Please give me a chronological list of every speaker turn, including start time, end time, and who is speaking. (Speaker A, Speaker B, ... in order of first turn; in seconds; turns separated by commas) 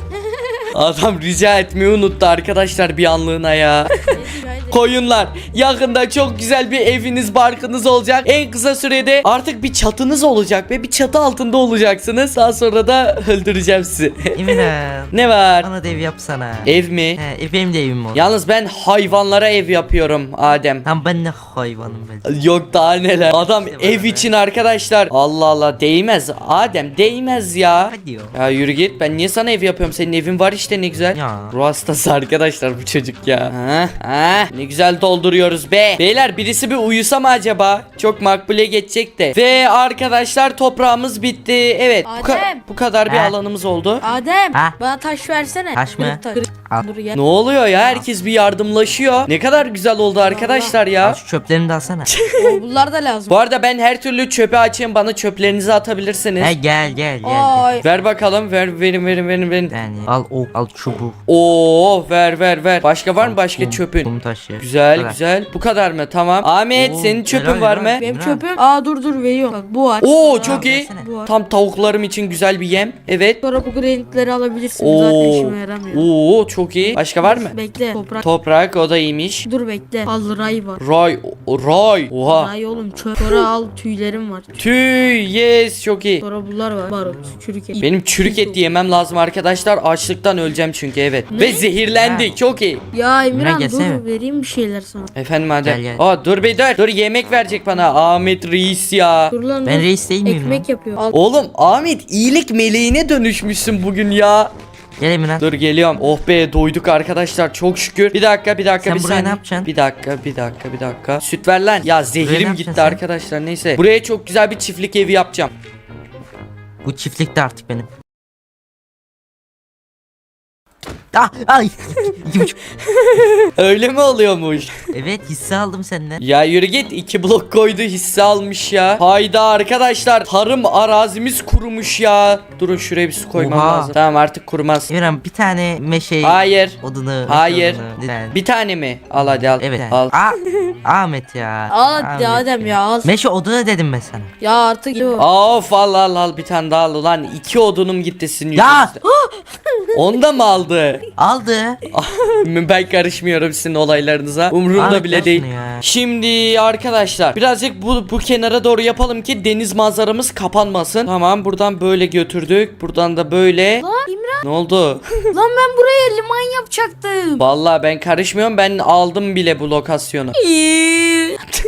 Speaker A: 0.7-3.9, Speaker B: 4.1-4.9, Speaker A: 4.7-15.7, Speaker C: 14.3-18.2, Speaker A: 16.6-17.2, Speaker A: 18.1-20.9, Speaker C: 20.8-22.3, Speaker A: 22.2-44.1, Speaker C: 23.3-24.3, Speaker C: 27.9-28.4, Speaker C: 31.1-31.5, Speaker B: 42.1-42.6, Speaker C: 43.1-43.4, Speaker B: 44.0-47.2, Speaker C: 45.8-46.9, Speaker A: 47.1-51.2, Speaker B: 50.2-50.8, Speaker C: 51.0-52.1, Speaker A: 52.1-52.6, Speaker B: 52.4-53.4, Speaker A: 53.3-56.5, Speaker C: 56.4-57.7, Speaker B: 57.2-57.9, Speaker A: 57.8-59.7, Speaker C: 59.7-61.2, Speaker A: 61.3-68.0, Speaker C: 63.2-65.2, Speaker C: 66.7-68.5, Speaker B: 68.0-71.3, Speaker A: 70.0-73.4, Speaker C: 70.4-71.1, Speaker B: 73.4-76.1, Speaker A: 74.8-77.6, Speaker B: 77.1-78.2, Speaker A: 78.2-79.5, Speaker B: 79.5-80.8, Speaker A: 80.8-82.5, Speaker B: 82.3-84.6, Speaker A: 83.2-83.5, Speaker A: 84.6-86.2, Speaker B: 86.2-88.6, Speaker A: 87.8-92.8, Speaker B: 91.3-91.7, Speaker C: 92.0-92.3, Speaker B: 92.9-95.1, Speaker C: 93.3-94.0, Speaker A: 95.2-99.3, Speaker C: 95.6-96.0, Speaker B: 99.3-101.1, Speaker C: 99.7-100.7, Speaker A: 101.1-104.5, Speaker C: 105.0-105.4, Speaker A: 105.4-115.5, Speaker C: 108.8-109.7, Speaker C: 112.2-113.0, Speaker C: 116.8-117.9, Speaker C: 121.1-122.5, Speaker A: 122.0-124.8, Speaker C: 124.9-126.2, Speaker A: 126.2-134.9, Speaker C: 133.4-133.9, Speaker C: 134.9-138.4, Speaker A: 136.2-140.1, Speaker C: 139.6-144.3, Speaker B: 141.7-143.1, Speaker B: 144.4-145.3, Speaker A: 145.2-149.0, Speaker C: 148.6-148.9, Speaker B: 149.1-149.4, Speaker B: 149.9-150.2, Speaker A: 149.9-151.0, Speaker C: 151.2-151.8, Speaker A: 151.9-163.8, Speaker C: 154.8-155.8, Speaker B: 163.8-164.4, Speaker A: 164.4-165.1, Speaker B: 165.3-167.4, Speaker A: 167.4-170.4, Speaker B: 170.3-171.4